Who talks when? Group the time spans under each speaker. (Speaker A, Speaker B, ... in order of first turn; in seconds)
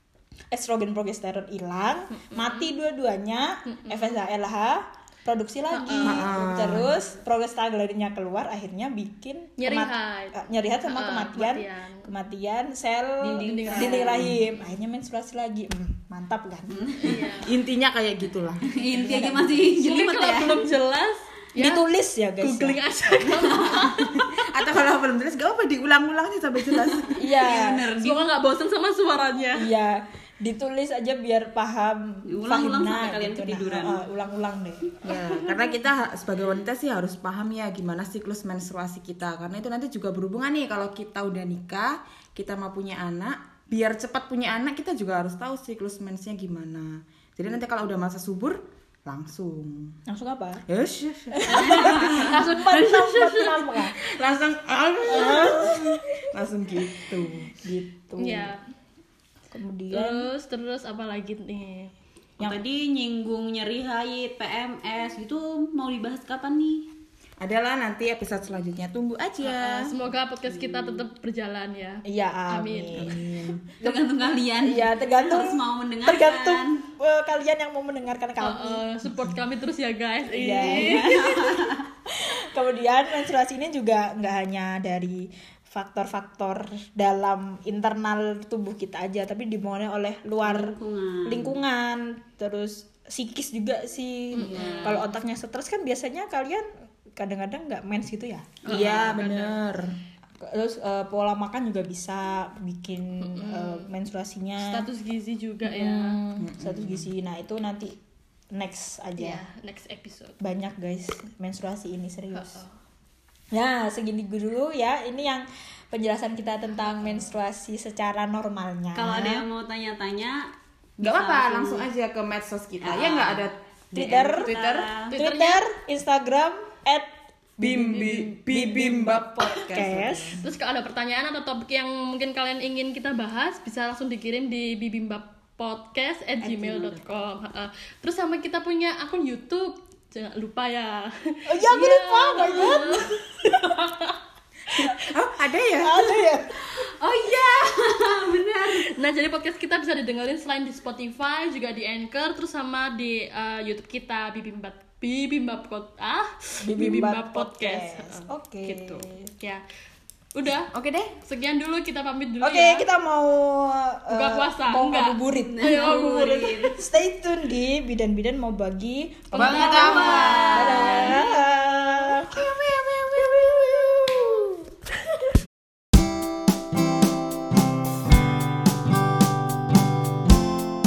Speaker A: 0.5-17.2, 18.9-19.7, 21.6-22.8, 27.1-27.9, 29.5-34.9, 50.1-50.6, 51.3-54.0, 55.0-56.2, 57.5-58.5, 59.5-60.3, 72.0-74.1, 74.6-79.4, 80.3-90.7, 91.2-99.2, 100.4-104.9, 105.6-108.0, 108.5-109.4, 110.4-112.6, 113.5-119.4, 123.9-124.5, 125.1-130.4, 141.5-143.7, 145.8-146.6, 156.6-159.3, 162.4-166.0, 166.7-172.4
Speaker B: 2.1-2.7, 3.7-4.2, 5.7-6.3, 9.6-12.1, 13.4-14.5, 17.0-17.5, 19.8-21.8, 22.4-24.2, 28.0-29.7, 52.1-53.6, 58.2-58.6, 59.9-61.9, 69.4-73.2, 78.4-81.4, 94.3-95.0, 98.6-99.6, 103.2-103.9, 104.6-106.2, 109.2-110.4, 112.3-112.8, 125.1-125.6, 130.4-144.2, 148.8-159.6, 160.3-160.7, 161.2-162.8, 164.1-166.7, 169.3-171.3
Speaker C: 6.0-7.0, 17.4-18.7, 24.0-27.2, 35.0-50.0, 50.7-52.1, 54.0-57.6, 67.4-69.9, 72.9-73.6, 98.7-100.0, 106.4-107.1, 121.0-124.9, 127.6-130.4, 144.8-146.1, 160.7-161.1, 169.3-170.6, 172.1-174.6
Speaker D: 13.2-14.4, 16.7-17.3, 18.6-20.7, 23.3-24.0, 27.2-28.3, 32.3-34.0, 51.5-52.4, 62.4-66.9, 70.5-71.0, 73.8-76.8, 80.6-81.9, 90.4-91.6, 94.3-95.1, 98.7-99.2, 118.9-121.9, 122.8-125.1, 136.4-137.3, 146.6-148.9, 165.4-166.8, 169.8-171.2